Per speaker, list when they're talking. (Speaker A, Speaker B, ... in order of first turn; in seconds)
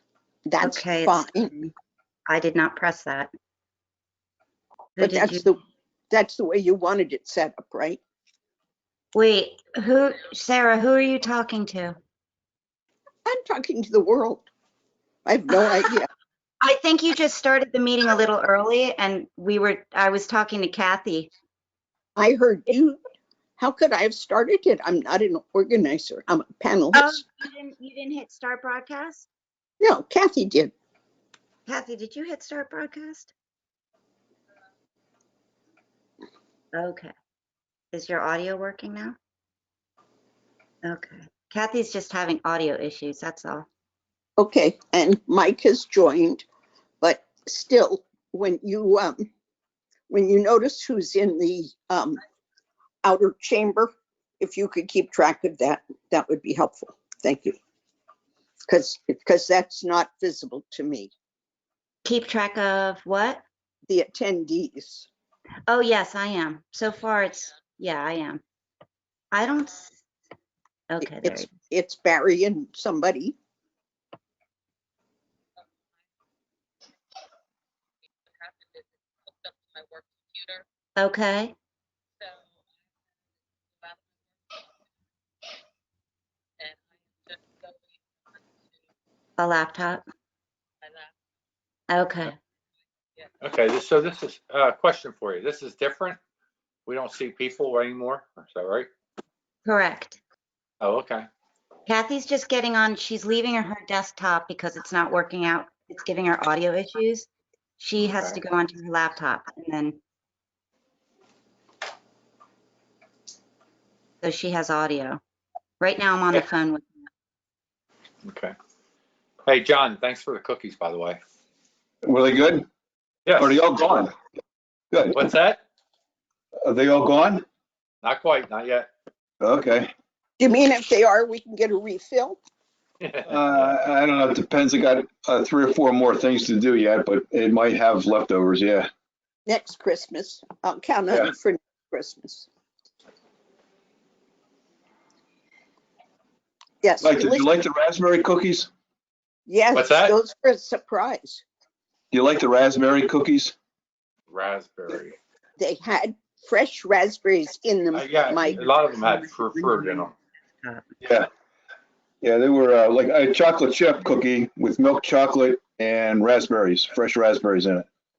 Speaker A: 0.5-1.5, 5.0-5.6, 6.1-8.0, 13.2-14.5, 15.2-16.1, 22.1-23.0, 23.6-27.2, 29.8-30.7, 44.4-46.4, 47.0-49.3, 50.1-52.2, 53.0-57.6, 58.7-61.1, 63.9-65.1, 71.0-73.3, 130.4-132.4, 139.4-142.5, 146.8-147.5, 149.4-151.4, 155.6-159.3
Speaker B: 0.6-1.7, 2.3-3.3, 5.0-5.5, 9.1-12.0, 16.6-21.3, 26.9-29.3, 31.7-33.3, 36.7-37.1, 37.9-39.2, 40.8-43.7, 62.0-63.4, 65.7-68.4, 69.3-70.0, 70.9-71.5, 81.0-81.5, 89.4-90.0, 91.9-92.3, 99.6-100.2, 101.9-107.3, 107.8-110.0, 114.2-115.2, 115.8-116.8
Speaker C: 78.4-80.6
Speaker D: 93.4-96.2, 96.9-98.9, 100.8-101.3, 108.0-108.4, 118.2-118.5, 119.5-121.2, 123.2-123.6, 125.1-125.6, 128.0-128.9, 133.0-133.7, 149.7-150.1, 154.3-155.2, 157.9-160.1
Speaker E: 122.0-122.7, 123.4-124.1, 124.9-125.2, 126.6-127.4, 129.4-129.9, 133.3-138.9, 147.0-148.7, 152.1-153.5, 161.0-161.3, 162.2-167.8